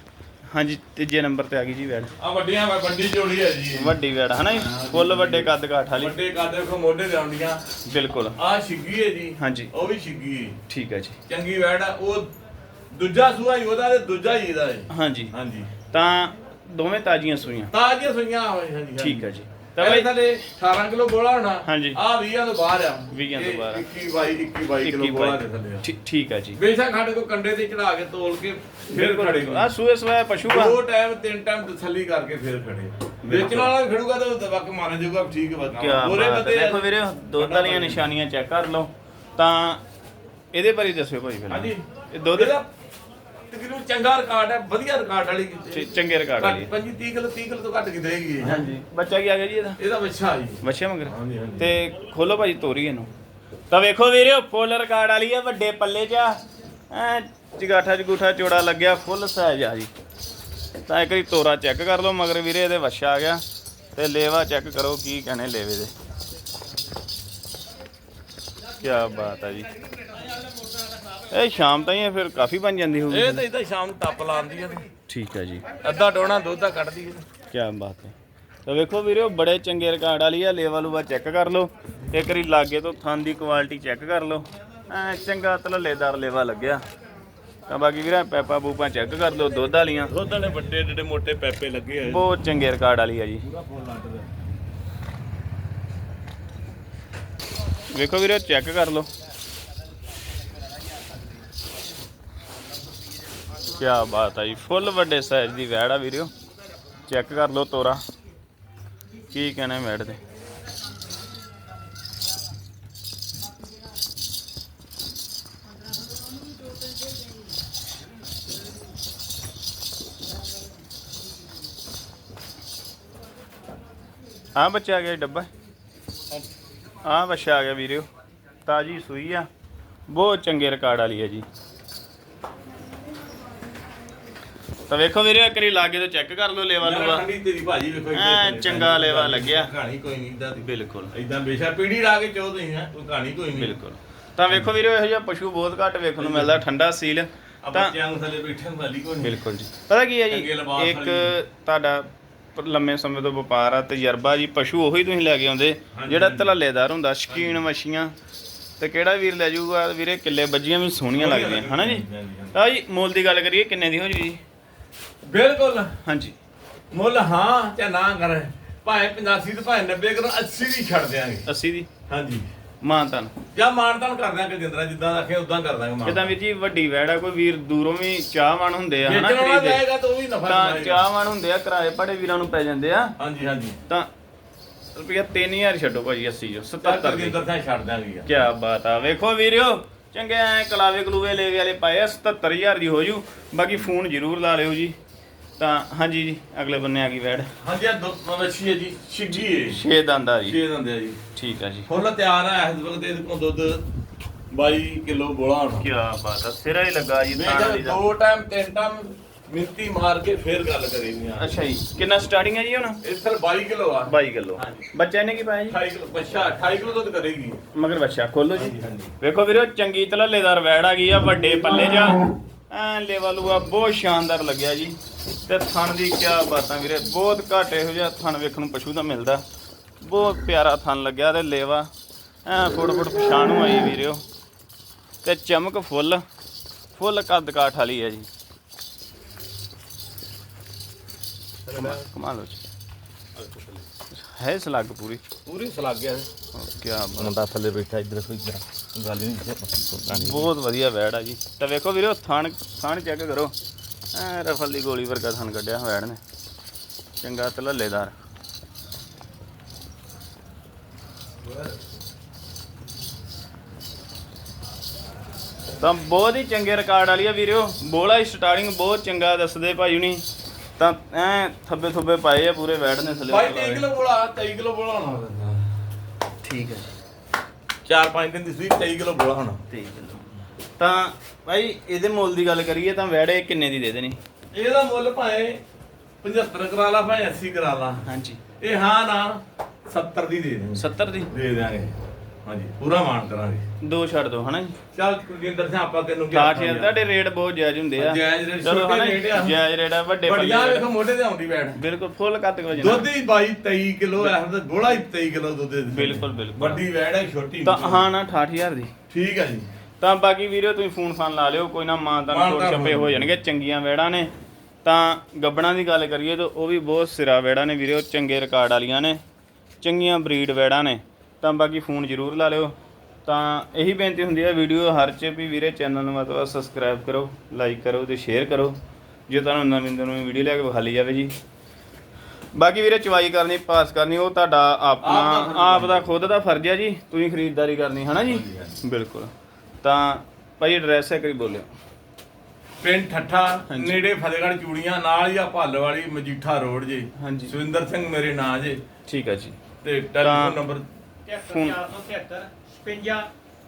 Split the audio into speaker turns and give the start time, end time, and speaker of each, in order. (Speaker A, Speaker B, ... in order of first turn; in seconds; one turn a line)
Speaker A: 0.5-2.1
Speaker B: 2.2-3.9
Speaker A: 3.7-6.2
Speaker B: 4.5-7.6
Speaker A: 7.8-8.4
Speaker B: 8.3-10.6
Speaker A: 9.4-9.7
Speaker A: 10.7-11.2
Speaker B: 11.3-12.3
Speaker B: 12.9-15.8
Speaker A: 14.9-15.3
Speaker A: 15.9-17.7
Speaker B: 17.7-25.9
Speaker A: 19.0-20.1
Speaker A: 21.6-22.0
Speaker A: 23.1-23.8
Speaker A: 24.8-26.6
Speaker B: 26.5-29.7
Speaker A: 28.9-30.8
Speaker B: 30.4-38.0
Speaker A: 33.2-33.7
Speaker A: 35.7-39.8
Speaker A: 40.5-42.5
Speaker B: 41.5-42.7
Speaker B: 43.5-48.7
Speaker A: 45.7-46.7
Speaker A: 48.4-49.8
Speaker B: 49.8-51.7
Speaker A: 50.6-53.1
Speaker A: 53.7-56.4
Speaker A: 56.9-59.9
Speaker A: 60.7-63.4
Speaker A: 63.9-65.9
Speaker A: 68.8-69.7
Speaker A: 71.3-73.4
Speaker B: 73.1-74.9
Speaker A: 75.1-75.7
Speaker B: 75.8-77.2
Speaker A: 77.5-78.1
Speaker A: 78.7-86.8
Speaker A: 87.7-90.1
Speaker B: 90.1-92.3
Speaker A: 92.0-93.4
Speaker B: 93.4-94.3
Speaker A: 97.9-99.1
Speaker A: 103.7-106.3
Speaker A: 107.1-108.0
Speaker A: 109.3-110.2
Speaker A: 124.5-125.5
Speaker A: 127.0-128.1
Speaker A: 128.6-129.5
Speaker A: 130.1-131.4
Speaker A: 134.9-137.2
Speaker B: 136.8-143.8
Speaker A: 138.1-139.7
Speaker A: 140.6-141.1
Speaker A: 143.5-147.9
Speaker B: 146.2-146.6
Speaker B: 147.6-149.4
Speaker A: 149.2-158.1
Speaker B: 150.3-151.4
Speaker B: 155.9-156.5
Speaker B: 157.3-157.6
Speaker A: 158.8-164.4
Speaker B: 161.1-162.6
Speaker B: 165.2-166.0
Speaker A: 166.0-166.3
Speaker B: 166.9-171.5
Speaker A: 171.4-171.9
Speaker B: 172.1-172.5
Speaker A: 172.8-173.3
Speaker B: 173.5-176.3
Speaker A: 176.0-179.8
Speaker B: 179.0-181.0
Speaker A: 180.4-183.1
Speaker B: 183.2-183.8
Speaker A: 184.9-187.4
Speaker B: 186.8-188.4
Speaker A: 188.3-194.9
Speaker A: 195.6-197.5
Speaker B: 197.6-199.8
Speaker A: 199.3-200.6
Speaker B: 200.4-201.2
Speaker A: 201.3-201.9
Speaker B: 201.9-203.8
Speaker B: 204.5-205.9
Speaker A: 205.8-208.0
Speaker B: 207.3-211.5
Speaker A: 211.4-213.0
Speaker B: 213.0-214.9
Speaker A: 214.1-215.8
Speaker B: 215.7-217.6
Speaker A: 217.7-224.9
Speaker B: 218.5-219.1
Speaker A: 225.5-229.4
Speaker A: 230.0-231.9
Speaker A: 232.4-234.2
Speaker A: 235.2-236.2
Speaker A: 237.0-238.3
Speaker B: 241.7-242.0
Speaker A: 241.7-242.6
Speaker B: 243.3-243.8
Speaker A: 244.1-245.2
Speaker B: 245.4-246.3
Speaker A: 246.5-247.3
Speaker B: 247.2-250.5
Speaker A: 250.1-253.5
Speaker A: 254.1-256.2
Speaker A: 257.2-258.1
Speaker B: 261.4-261.7
Speaker A: 265.8-270.2
Speaker A: 270.8-273.8
Speaker B: 273.3-275.6
Speaker A: 276.4-276.9
Speaker B: 277.8-279.6
Speaker A: 279.7-280.2
Speaker A: 280.8-284.2
Speaker B: 284.5-285.6
Speaker B: 286.2-288.0
Speaker A: 288.0-288.4
Speaker B: 288.6-291.9
Speaker A: 290.8-291.3
Speaker B: 292.4-293.6
Speaker A: 293.8-294.8
Speaker B: 294.9-296.9
Speaker A: 296.3-300.9
Speaker B: 298.0-299.6
Speaker B: 300.2-301.8
Speaker A: 301.8-303.1
Speaker B: 302.7-308.1
Speaker A: 305.9-306.8
Speaker A: 307.6-308.9
Speaker B: 309.1-309.7
Speaker A: 310.0-314.3
Speaker B: 312.3-313.3
Speaker A: 314.8-319.2
Speaker A: 319.8-322.7
Speaker A: 323.2-328.8
Speaker A: 329.3-331.3
Speaker A: 332.5-339.3
Speaker B: 335.0-336.2
Speaker B: 338.2-338.8
Speaker A: 339.8-341.7
Speaker B: 342.8-348.8
Speaker A: 343.7-344.0
Speaker A: 347.2-347.5
Speaker A: 349.1-349.6
Speaker B: 349.8-350.9
Speaker A: 350.2-350.6
Speaker C: 351.2-353.3
Speaker A: 351.4-351.9